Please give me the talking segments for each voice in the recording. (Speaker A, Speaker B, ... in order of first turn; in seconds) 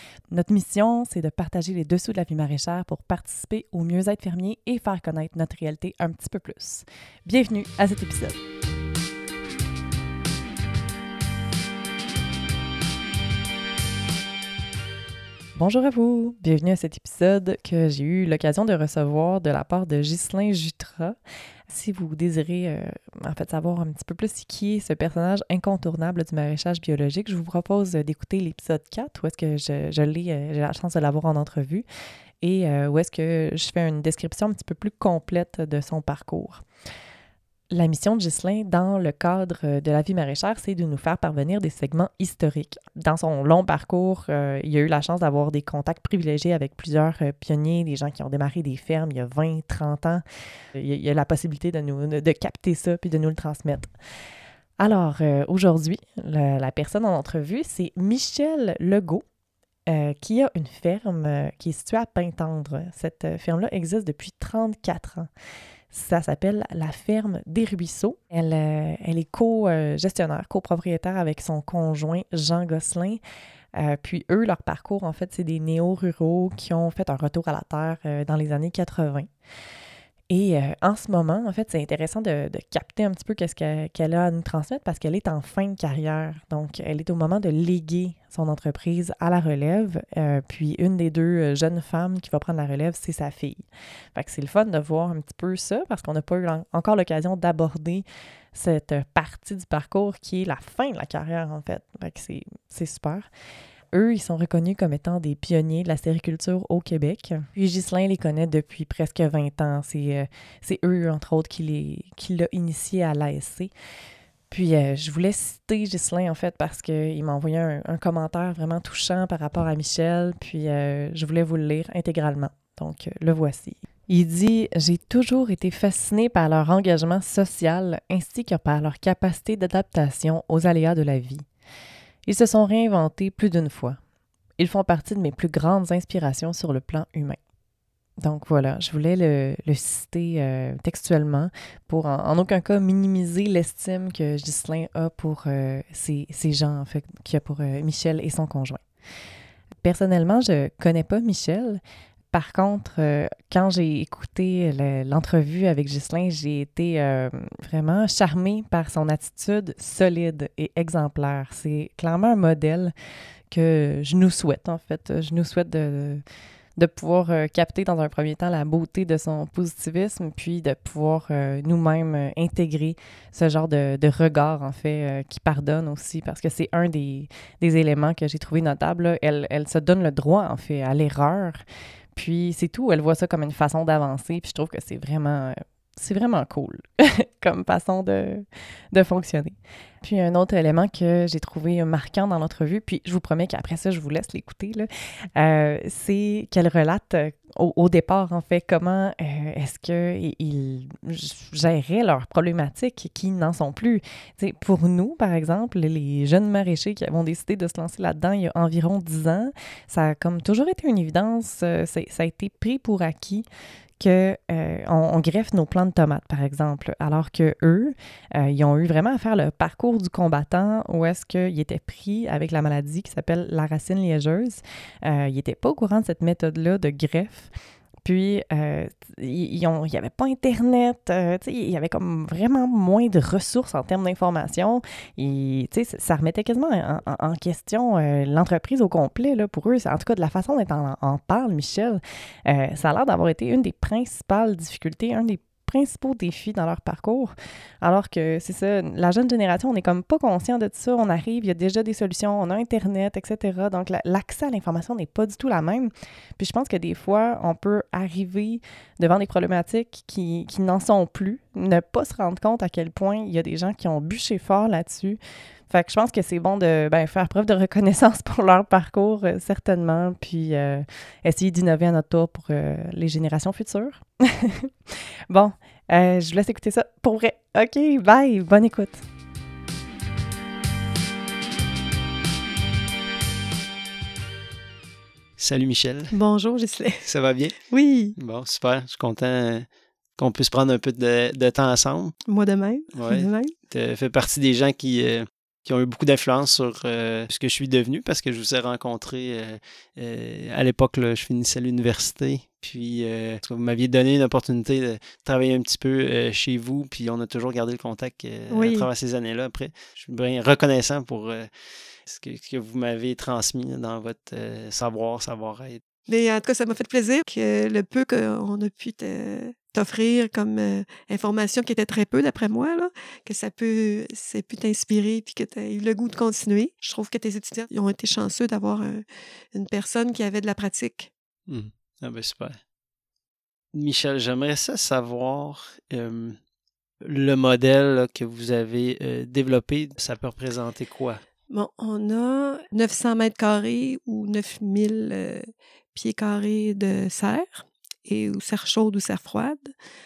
Speaker A: 0.3-8.4, 15.6-21.1, 21.7-31.8, 32.4-36.6, 37.7-50.2, 50.7-53.9, 54.8-59.2, 59.9-65.3, 65.9-73.2, 73.8-79.3, 80.3-103.3, 103.9-113.7, 114.5-131.4, 132.3-134.0, 134.6-137.4, 138.2-148.8, 149.8-151.8, 152.3-162.9, 163.5-166.2, 166.8-181.6, 182.1-213.4, 214.0-227.5, 228.0-265.2, 265.7-279.0
Speaker B: 285.4-286.1, 287.0-287.6, 288.2-292.1, 292.9-311.5, 312.0-315.8, 331.5-332.6, 333.7-336.4, 337.0-341.2
Speaker C: 286.1-287.1, 287.6-288.1, 292.3-293.5, 308.5-308.9, 316.1-331.1, 341.5-349.7